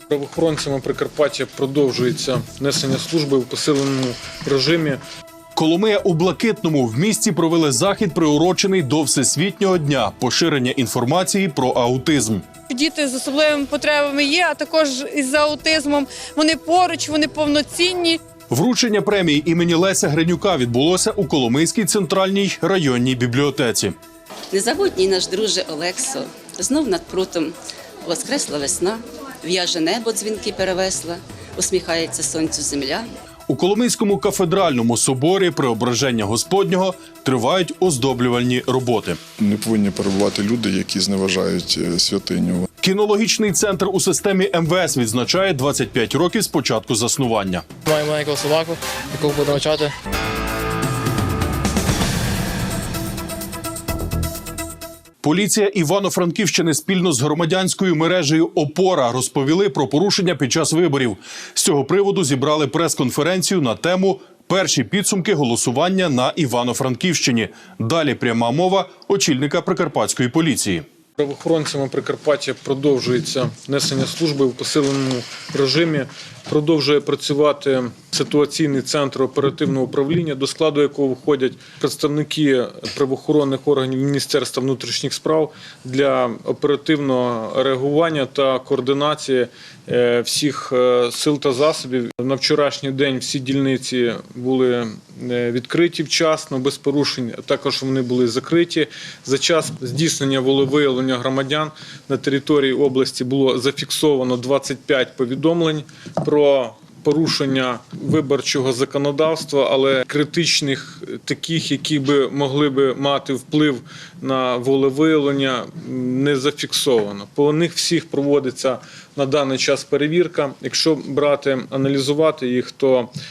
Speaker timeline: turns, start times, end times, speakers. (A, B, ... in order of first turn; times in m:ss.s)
0:00.1-0:05.0 A
0:05.6-0:12.4 B
0:12.7-0:18.2 C
0:18.5-0:24.0 B
0:24.5-0:27.5 D
0:28.0-0:33.0 D
0:33.5-0:39.2 B
0:39.4-0:42.7 E
0:42.8-0:47.6 B
0:47.9-0:49.9 F
0:55.2-1:10.8 B
1:11.2-2:03.1 A